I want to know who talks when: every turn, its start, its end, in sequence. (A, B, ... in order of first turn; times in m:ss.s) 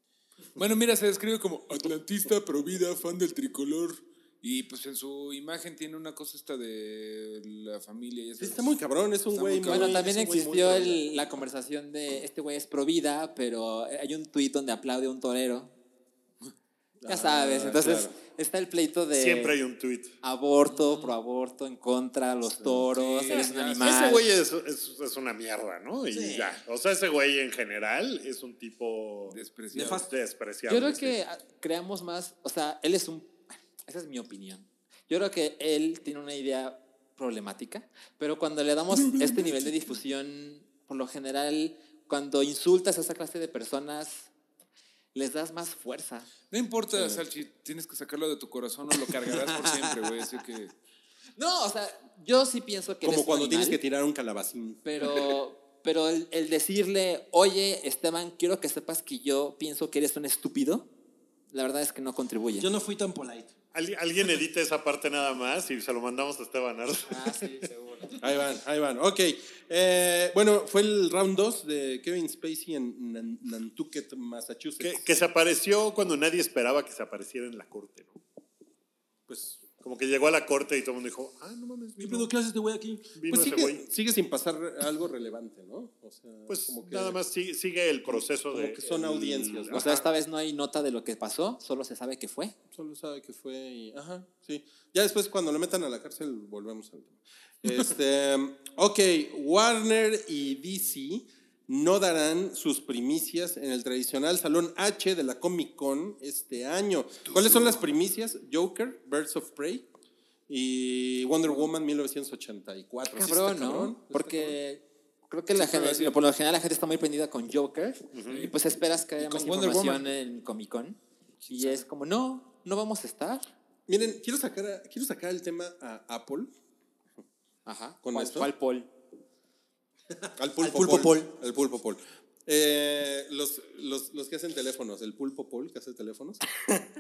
0:00.6-0:08.7 A
0:08.4-0:11.0 B
0:09.3-0:10.1 A
0:09.7-0:15.7 C
0:17.0-0:18.2 B
0:17.1-0:19.6 C
0:19.2-0:20.1 D
0:20.2-0:24.3 C
0:20.7-0:21.1 A
0:23.0-0:23.8 A
0:23.3-0:31.2 D
0:26.1-0:26.5 E
0:29.3-0:30.0 A
0:29.7-0:30.1 E
0:30.7-0:44.3 C
0:45.2-0:46.3 C
0:46.5-0:50.7 A
0:47.0-0:47.2 B
0:49.3-0:50.0 E
0:51.4-0:53.8 C
0:53.0-0:54.8 B
0:54.8-1:00.9 C
1:01.5-1:02.7 C
1:02.5-1:03.5 E
1:03.7-1:07.6 D
1:07.1-1:08.2 C
1:08.2-1:15.1 B
1:14.8-1:18.2 D
1:19.3-1:19.6 B
1:19.6-1:22.3 D
1:22.0-1:23.1 E
1:23.1-1:23.8 D
1:23.3-1:27.2 B
1:26.5-1:30.0 D
1:28.1-1:30.0 B
1:29.7-1:32.6 C
1:32.7-1:49.9 B
1:50.5-1:54.6 B
1:53.1-2:01.0 C
1:55.6-1:56.2 B
1:58.1-1:58.5 D
1:59.2-2:00.0 A
2:01.4-2:01.8 B
2:01.5-2:03.5 C
2:03.9-2:06.5 B
2:07.7-2:08.9 C
2:08.0-2:08.5 B
2:10.4-2:16.6 B
2:10.6-2:11.3 E